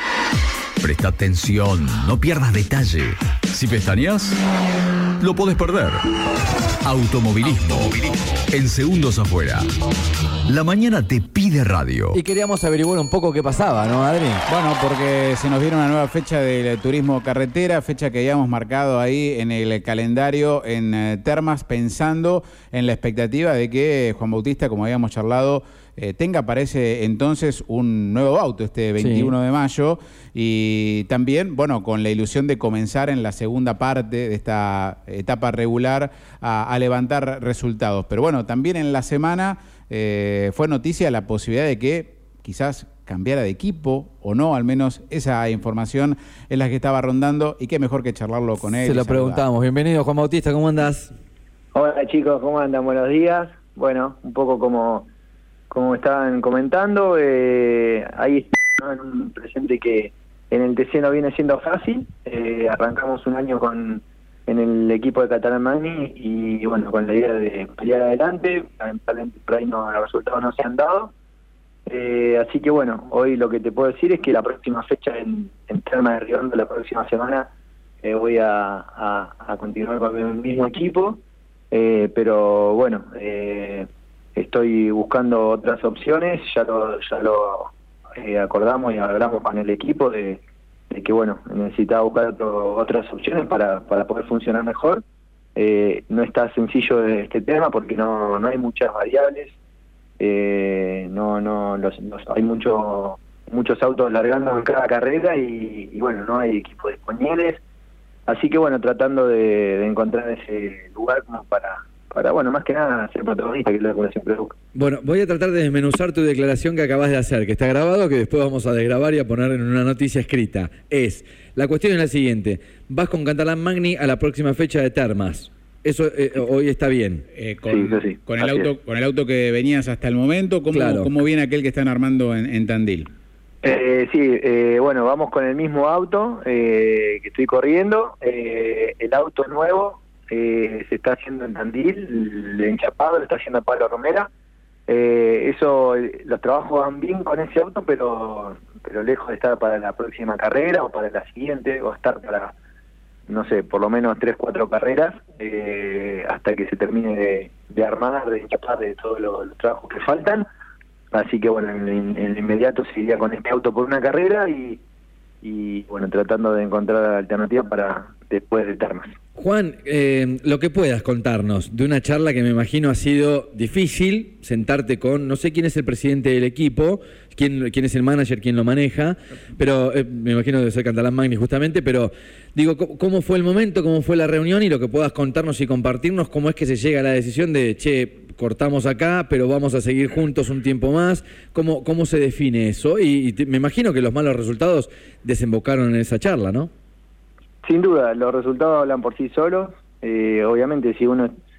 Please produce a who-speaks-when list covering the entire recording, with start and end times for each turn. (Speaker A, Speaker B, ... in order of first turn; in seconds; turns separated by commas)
Speaker A: 0.8-4.4, Speaker A: 5.2-6.1, Speaker A: 6.8-9.7, Speaker A: 10.4-12.2, Speaker B: 12.1-14.4, Speaker C: 14.5-49.5, Speaker B: 29.0-29.3, Speaker B: 48.7-51.1, Speaker D: 51.7-55.1, Speaker D: 55.7-71.1, Speaker D: 71.9-77.5, Speaker D: 78.0-81.2, Speaker D: 81.7-95.0, Speaker D: 95.5-99.5, Speaker D: 100.2-107.6, Speaker D: 108.3-114.5, Speaker B: 114.7-127.2, Speaker C: 127.3-133.1, Speaker D: 127.7-128.7, Speaker B: 130.7-131.1, Speaker D: 133.6-144.3, Speaker D: 144.9-152.5, Speaker D: 153.3-160.4, Speaker D: 161.1-164.8, Speaker D: 165.4-169.1, Speaker B: 169.3-196.7, Speaker D: 197.6-201.3